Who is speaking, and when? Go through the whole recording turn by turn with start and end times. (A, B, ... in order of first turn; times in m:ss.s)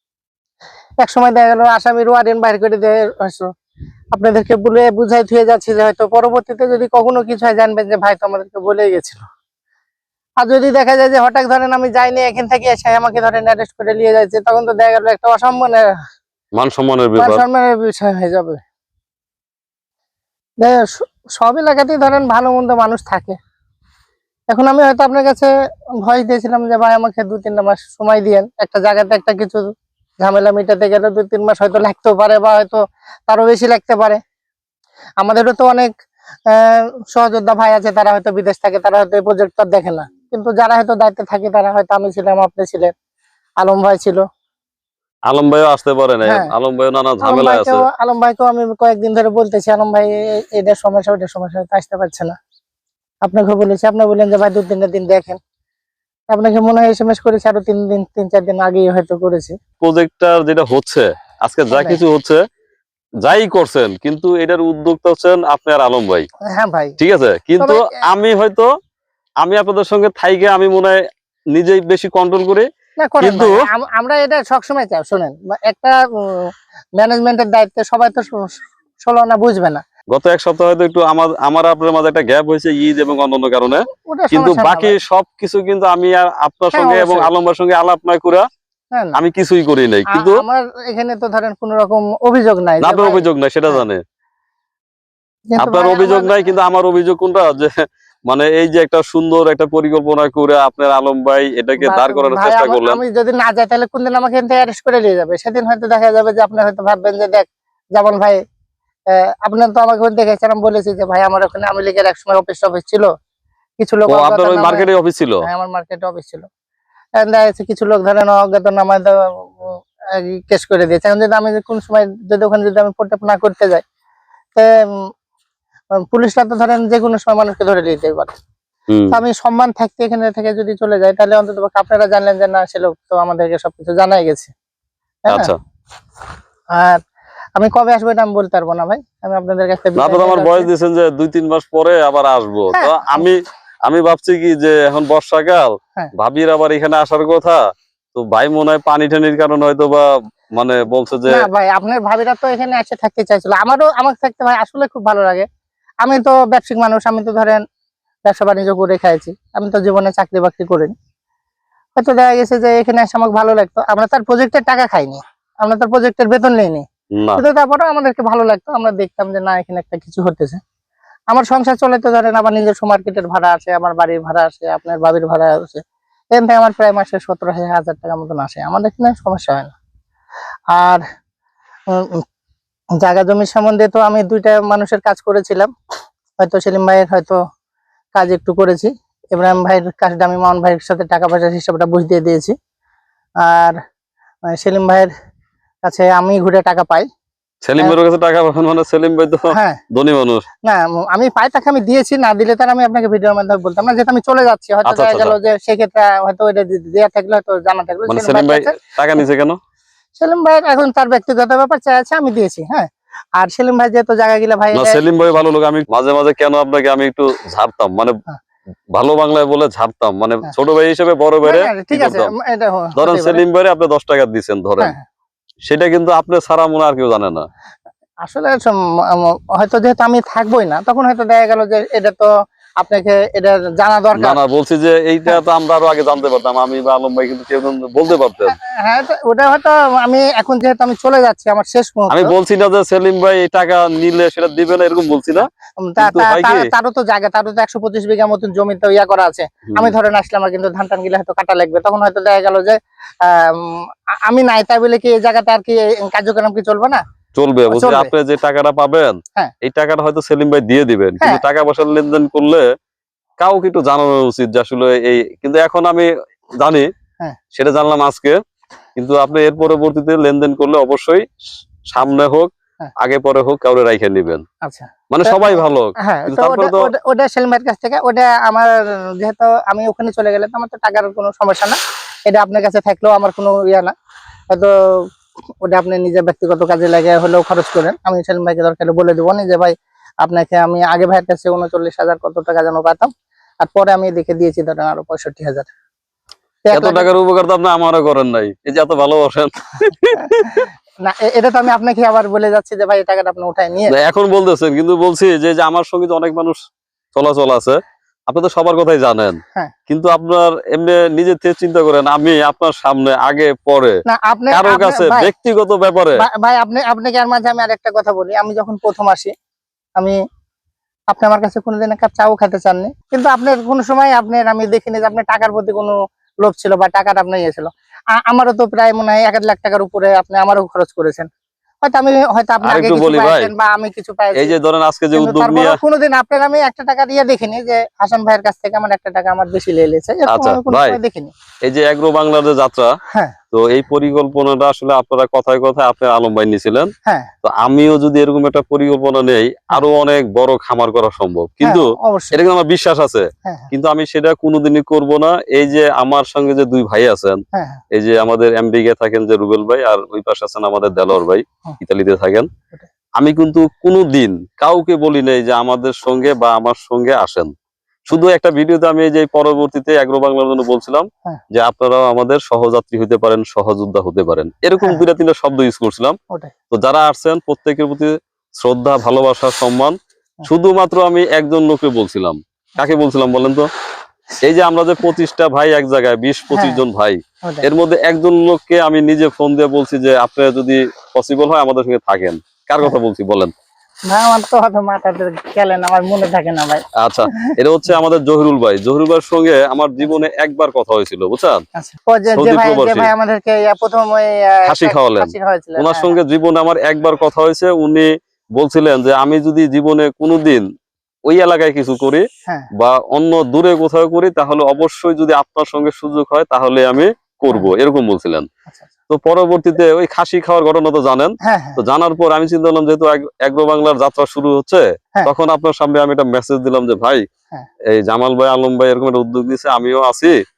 0:01.0-0:03.5 A
0:04.1-0:09.2 A
0:10.4-0:15.9 A
0:16.6-0:17.4 B
0:17.2-0:18.6 A
0:20.6-0:23.4 A
0:24.5-0:25.5 A
0:26.0-0:29.6 A
0:30.2-0:34.2 A
0:35.2-0:35.9 A
0:36.5-0:42.9 A
0:43.6-0:44.2 A
0:45.3-0:47.8 B
0:46.2-0:46.5 A
0:47.2-0:52.3 A
0:53.2-0:55.4 A
0:56.3-0:59.6 A
0:59.8-1:02.4 B
1:01.7-1:02.0 A
1:03.2-1:06.2 B
1:06.5-1:07.0 A
1:07.0-1:08.7 B
1:07.6-1:07.9 A
1:09.4-1:11.0 B
1:11.5-1:12.7 B
1:13.0-1:19.8 A
1:13.2-1:13.6 B
1:20.1-1:28.4 B
1:24.1-1:25.0 A
1:26.7-1:27.3 A
1:29.1-1:30.4 B
1:30.1-1:33.8 A
1:32.8-1:34.0 B
1:35.5-1:36.4 A
1:35.6-1:37.7 B
1:38.3-1:43.0 B
1:41.8-1:48.4 A
1:49.1-1:53.1 A
1:53.8-1:54.9 A
1:54.1-1:55.4 B
1:55.4-1:56.5 A
1:57.2-2:03.8 A
2:06.1-2:08.4 A
2:08.9-2:09.2 B
2:09.1-2:14.5 A
2:15.3-2:15.5 A
2:15.3-2:15.6 B
2:16.7-2:17.0 A
2:17.6-2:20.7 A
2:20.0-2:27.6 B
2:22.7-2:23.3 A
2:28.1-2:31.5 B
2:31.2-2:35.4 A
2:36.0-2:37.6 A
2:38.3-2:40.9 A
2:42.0-2:50.6 A
2:47.1-2:47.4 B
2:51.3-2:55.8 A
2:56.3-2:59.7 A
3:00.7-3:01.0 A
3:01.9-3:02.2 A
3:03.0-3:05.7 A
3:06.4-3:07.4 A
3:08.1-3:12.5 A
3:13.4-3:13.8 A
3:14.5-3:15.1 A
3:15.8-3:17.1 A
3:17.6-3:20.4 B
3:19.5-3:19.8 A
3:20.6-3:29.2 A
3:24.8-3:25.3 B
3:28.1-3:29.6 B
3:30.2-3:35.0 A
3:34.7-3:38.1 B
3:38.9-3:42.3 B
3:41.4-3:43.4 A
3:43.0-3:44.9 B
3:45.7-3:47.4 B
3:48.2-3:52.3 A
3:52.8-3:54.4 A
3:54.2-3:58.5 B
3:58.8-4:02.3 A
4:02.1-4:05.5 B
4:05.8-4:17.0 A
4:06.0-4:06.7 B
4:17.4-4:22.7 B
4:17.7-4:18.1 A
4:23.4-4:26.1 B
4:26.6-4:26.9 B
4:27.5-4:28.4 B
4:29.0-4:31.2 B
4:31.9-4:34.4 B
4:34.6-4:43.9 A
4:35.1-4:36.9 B
4:45.6-4:55.7 A
4:56.6-4:57.1 A
4:56.7-5:00.6 B
5:00.2-5:03.9 A
5:03.9-5:06.6 B
5:07.1-5:14.0 B
5:14.1-5:15.3 A
5:14.5-5:16.2 B
5:16.2-5:19.3 A
5:21.1-5:31.3 A
5:31.8-5:34.5 A
5:32.6-5:33.5 B
5:34.4-5:35.8 B
5:35.1-5:41.3 A
5:40.3-5:41.0 B
5:41.6-5:42.9 B
5:43.5-5:46.9 B
5:47.4-5:57.4 B
5:51.6-5:52.4 A
5:53.4-5:53.7 A
5:57.5-5:57.8 A
5:57.9-6:02.5 B
6:03.2-6:07.5 B
6:08.1-6:16.2 B
6:16.7-6:19.9 B
6:20.4-6:23.7 B
6:24.4-6:33.5 B
6:26.5-6:26.8 A
6:34.1-6:36.8 A
6:37.0-6:41.6 B
6:41.8-6:46.2 A
6:42.3-6:43.1 B
6:44.7-6:50.6 B
6:51.3-6:52.2 B
6:52.8-6:58.5 B
6:59.1-7:07.2 B
7:01.4-7:01.8 A
7:07.9-7:10.3 B